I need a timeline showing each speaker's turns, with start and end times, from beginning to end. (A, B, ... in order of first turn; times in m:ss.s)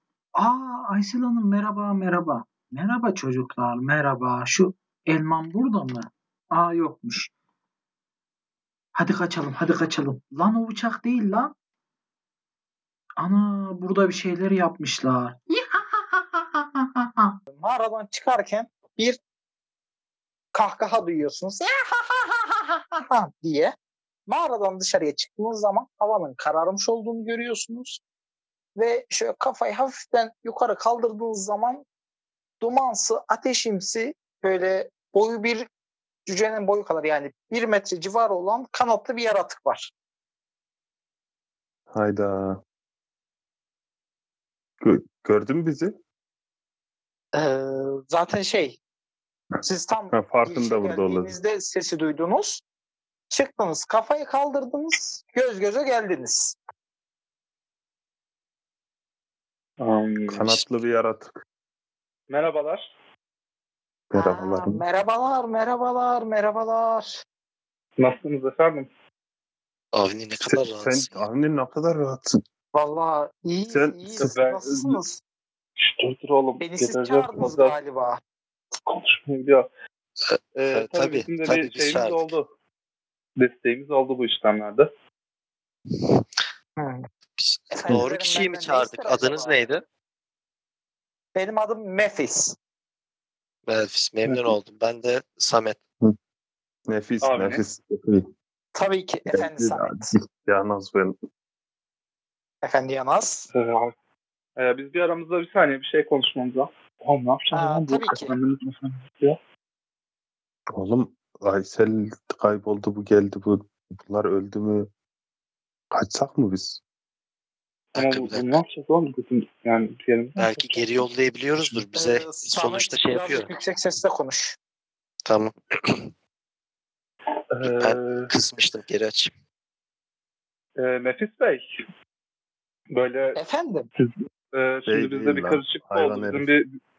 0:00.4-0:07.3 A
0:08.9-0:11.5 A
0:13.2-0:17.3 A
0:17.5-0:19.2 B
0:20.5-0:23.7 B
0:24.3-0:28.0 B
0:28.8-0:31.8 B
0:32.6-0:35.7 B
0:36.3-0:39.9 B
0:41.9-0:42.6 C
0:44.8-0:45.9 C
0:47.3-0:48.8 B
0:49.6-0:52.6 B
0:50.1-0:51.3 C
0:53.3-0:56.6 B
0:59.8-1:00.5 D
1:00.3-1:01.4 C
1:00.4-1:00.8 E
1:02.3-1:02.9 D
1:04.1-1:04.8 C
1:04.1-1:07.2 B
1:08.0-1:08.9 D
1:09.9-1:11.1 E
1:10.4-1:12.4 C
1:12.7-1:15.2 B
1:13.7-1:14.3 C
1:14.2-1:15.0 D
1:15.8-1:17.8 D
1:16.6-1:18.2 B
1:18.9-1:19.7 D
1:20.3-1:22.3 E
1:20.6-1:22.5 D
1:23.4-1:24.9 D
1:25.9-1:26.2 E
1:26.8-1:27.1 B
1:27.4-1:29.8 E
1:27.7-1:29.6 B
1:31.3-1:32.6 B
1:33.7-1:35.8 E
1:34.2-1:34.6 D
1:36.9-1:38.3 C
1:37.2-1:37.6 D
1:38.8-1:40.1 B
1:39.3-1:41.2 C
1:42.6-1:43.5 B
1:43.5-1:43.9 D
1:44.6-1:49.4 D
1:47.5-1:48.3 B
1:50.7-1:54.9 C
1:55.9-1:56.8 C
1:57.9-2:01.0 D
1:58.0-1:58.6 E
2:00.4-2:03.5 E
2:02.0-2:04.6 B
2:05.2-2:06.1 E
2:07.5-2:08.3 D
2:07.6-2:09.3 E
2:10.8-2:11.7 D
2:12.9-2:13.4 D
2:13.4-2:13.9 B
2:14.0-2:16.7 D
2:14.9-2:16.5 C